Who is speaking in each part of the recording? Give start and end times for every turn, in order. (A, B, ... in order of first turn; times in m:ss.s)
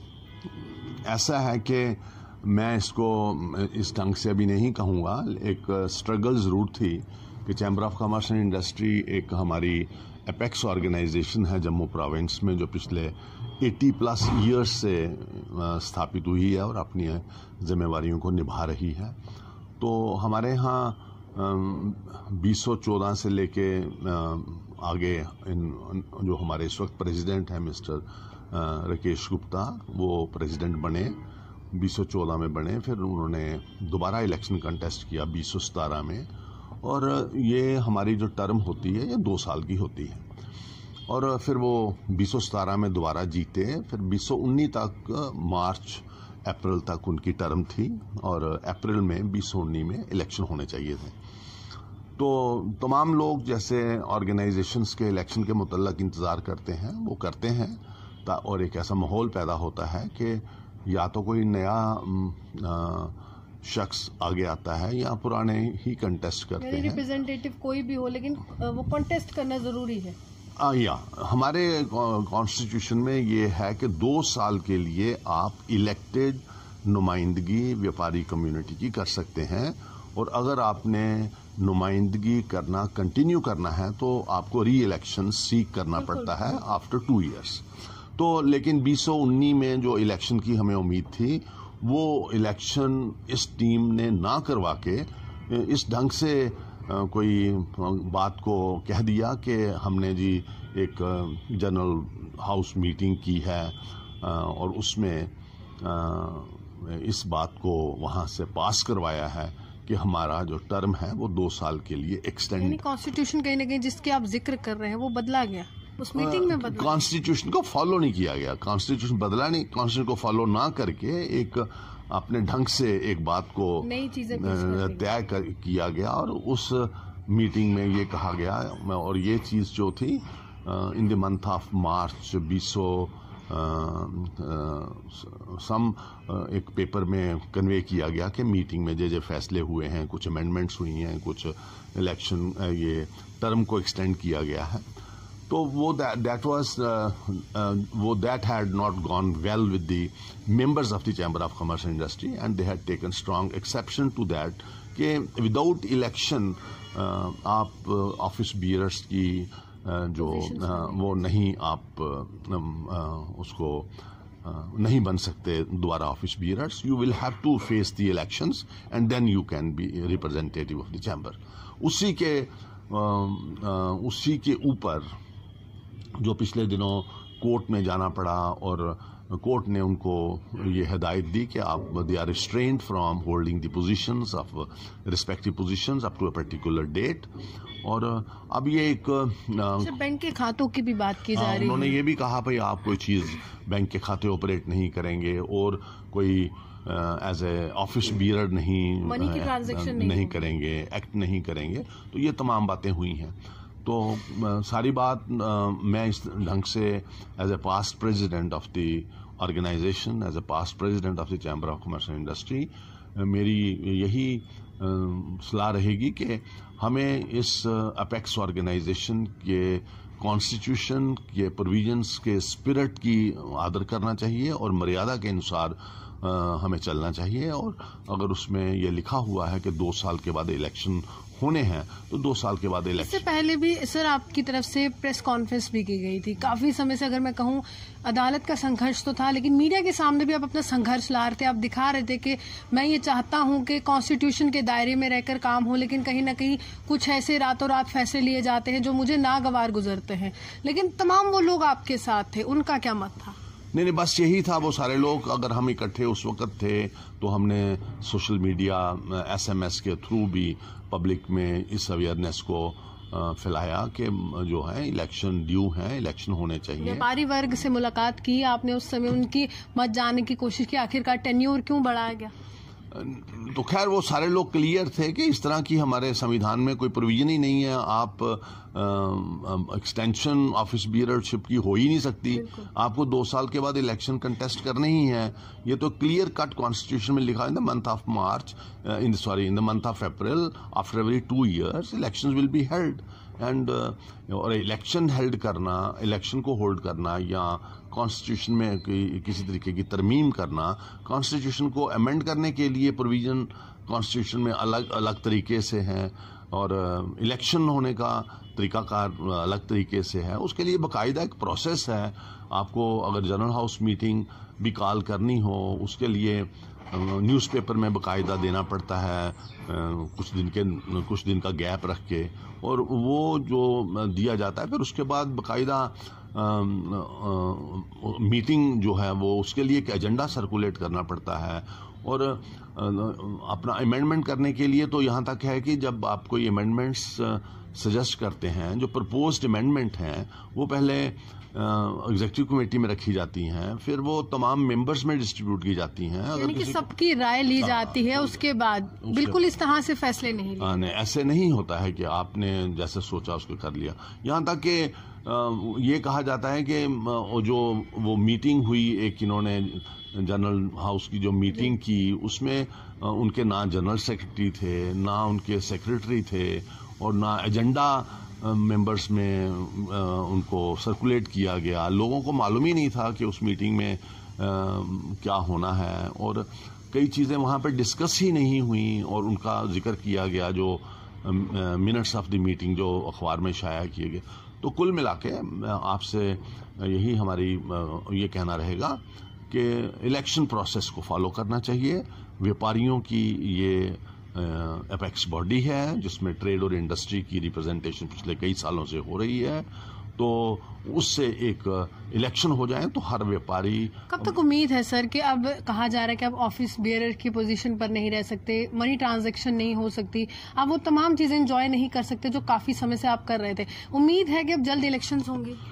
0:01.0-0:19.2 A
0:19.8-0:31.2 A
0:31.7-0:36.3 A
0:36.8-0:40.2 A
0:41.1-0:51.2 A
0:52.2-1:07.0 A
1:06.6-1:10.2 B
1:10.6-1:27.6 A
1:26.0-1:26.4 B
1:28.2-1:52.8 A
1:52.6-1:57.0 B
1:56.2-2:24.8 A
2:03.8-2:05.1 B
2:25.5-2:43.9 A
2:40.2-2:41.0 B
2:44.4-2:55.0 A
2:56.2-3:07.3 A
3:07.8-3:09.9 A
3:09.8-3:12.0 B
3:11.3-3:53.2 A
3:19.0-3:20.4 B
3:53.0-4:13.4 B
4:13.7-4:27.0 A
4:26.8-4:32.3 B
4:32.9-5:46.8 A
4:42.3-4:42.7 B
5:46.3-5:50.8 B
5:47.6-5:48.4 A
5:49.0-5:49.4 A
5:50.6-6:39.6 A
6:40.2-6:44.3 A
6:44.1-6:55.6 B